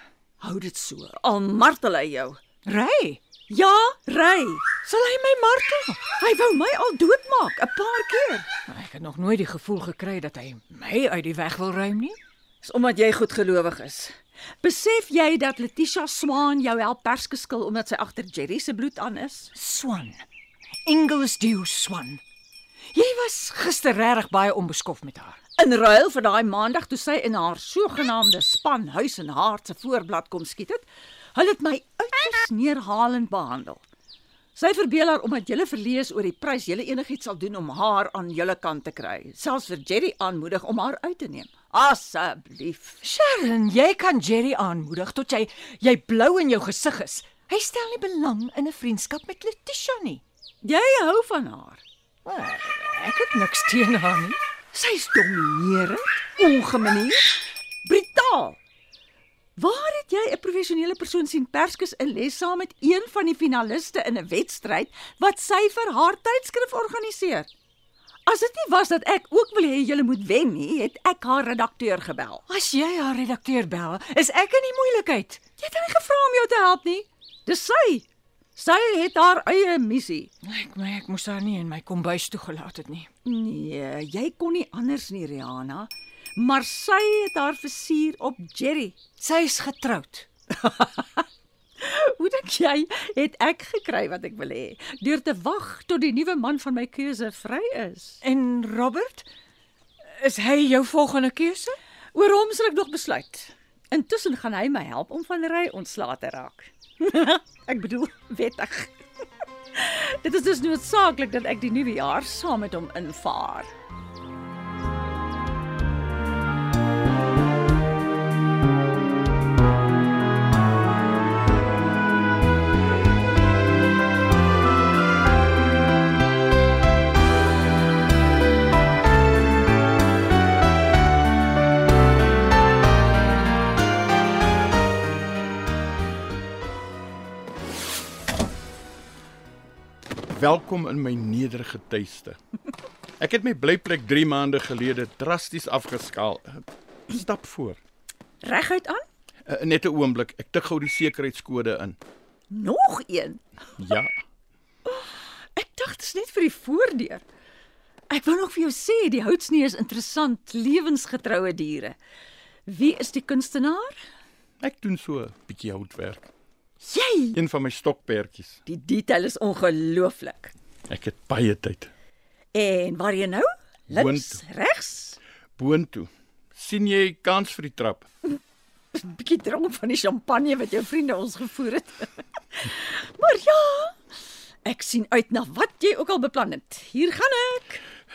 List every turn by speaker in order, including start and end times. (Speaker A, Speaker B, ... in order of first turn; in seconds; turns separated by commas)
Speaker A: 0.4-2.4, Speaker B: 2.6-3.2, Speaker A: 3.5-4.7, Speaker B: 4.8-6.1, Speaker A: 6.2-8.5, Speaker B: 8.7-12.2, Speaker A: 12.6-19.5, Speaker B: 19.6-20.2, Speaker B: 20.9-22.2, Speaker B: 22.9-25.4, Speaker A: 25.6-33.8, Speaker A: 34.5-43.0, Speaker B: 43.0-50.2, Speaker A: 50.6-51.8, Speaker B: 52.2-54.4, Speaker A: 54.7-58.6, Speaker A: 59.6-67.5, Speaker A: 68.3-72.4, Speaker B: 72.5-75.4, Speaker A: 75.6-80.3, Speaker B: 80.4-83.1, Speaker A: 83.2-89.0, Speaker B: 89.2-90.3, Speaker A: 90.5-91.2, Speaker A: 91.8-98.2, Speaker B: 98.2-99.3, Speaker B: 100.2-101.8, Speaker A: 102.1-109.0, Speaker A: 109.7-113.7, Speaker C: 140.3-142.4, Speaker C: 143.2-147.8, Speaker A: 148.4-149.0, Speaker C: 149.5-152.0, Speaker A: 152.5-153.4, Speaker C: 153.8-154.2, Speaker A: 154.9-157.2, Speaker A: 158.1-162.0, Speaker A: 162.7-164.0, Speaker C: 164.6-166.3, Speaker A: 166.8-167.4, Speaker C: 167.3-168.6, Speaker A: 168.7-170.5, Speaker C: 170.9-171.9, Speaker A: 172.5-175.2, Speaker C: 173.9-174.4, Speaker C: 175.6-178.1, Speaker A: 178.9-183.9, Speaker A: 184.7-187.8